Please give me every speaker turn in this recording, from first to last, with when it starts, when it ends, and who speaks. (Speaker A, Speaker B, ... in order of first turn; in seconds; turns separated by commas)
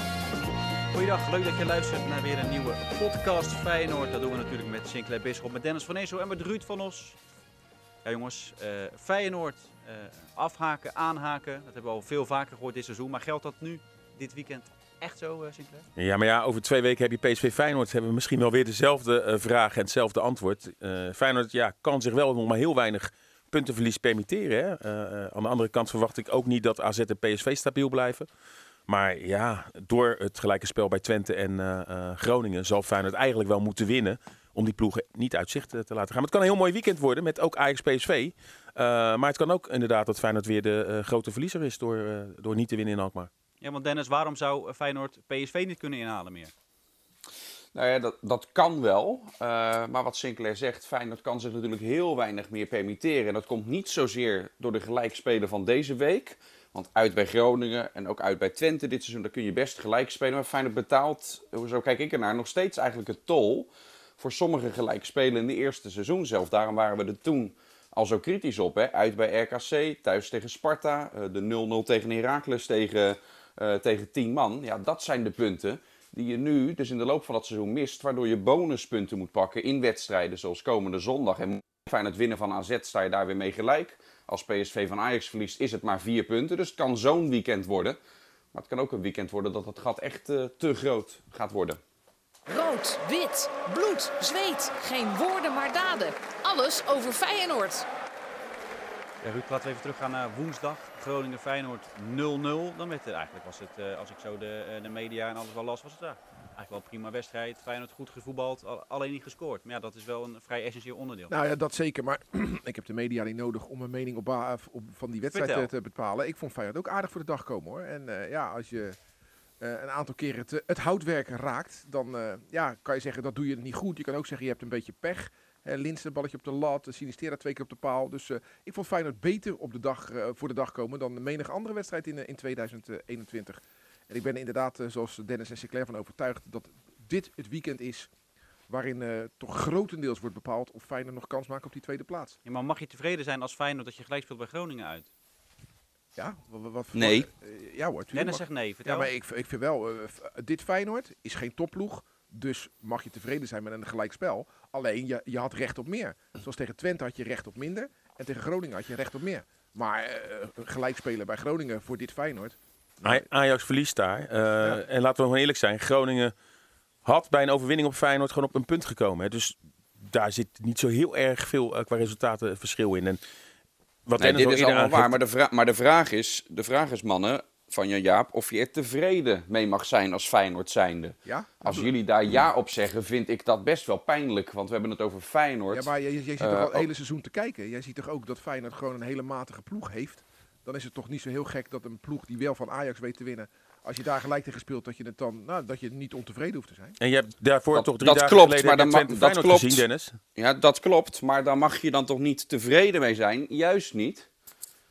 Speaker A: 0.9-7.2, Speaker A: 8.0-15.9, Speaker B: 15.9-28.3, Speaker B: 28.9-43.3, Speaker A: 43.6-46.5, Speaker C: 47.7-63.7, Speaker C: 64.2-88.0, Speaker C: 88.5-91.8, Speaker D: 92.5-97.9, Speaker A: 99.2-111.3, Speaker E: 111.3-119.0, Speaker A: 115.3-115.7, Speaker E: 119.6-138.1, Speaker E: 138.7-142.4, Speaker A: 142.4-145.1, Speaker E: 146.2-163.3, Speaker C: 146.9-147.3, Speaker A: 148.1-149.1, Speaker B: 163.0-166.3, Speaker B: 167.0-173.2, Speaker B: 174.1-175.1, Speaker C: 174.2-185.9, Speaker E: 181.2-181.9, Speaker E: 185.7-197.0, Speaker C: 186.4-186.9, Speaker B: 197.0-200.2, Speaker C: 197.8-204.3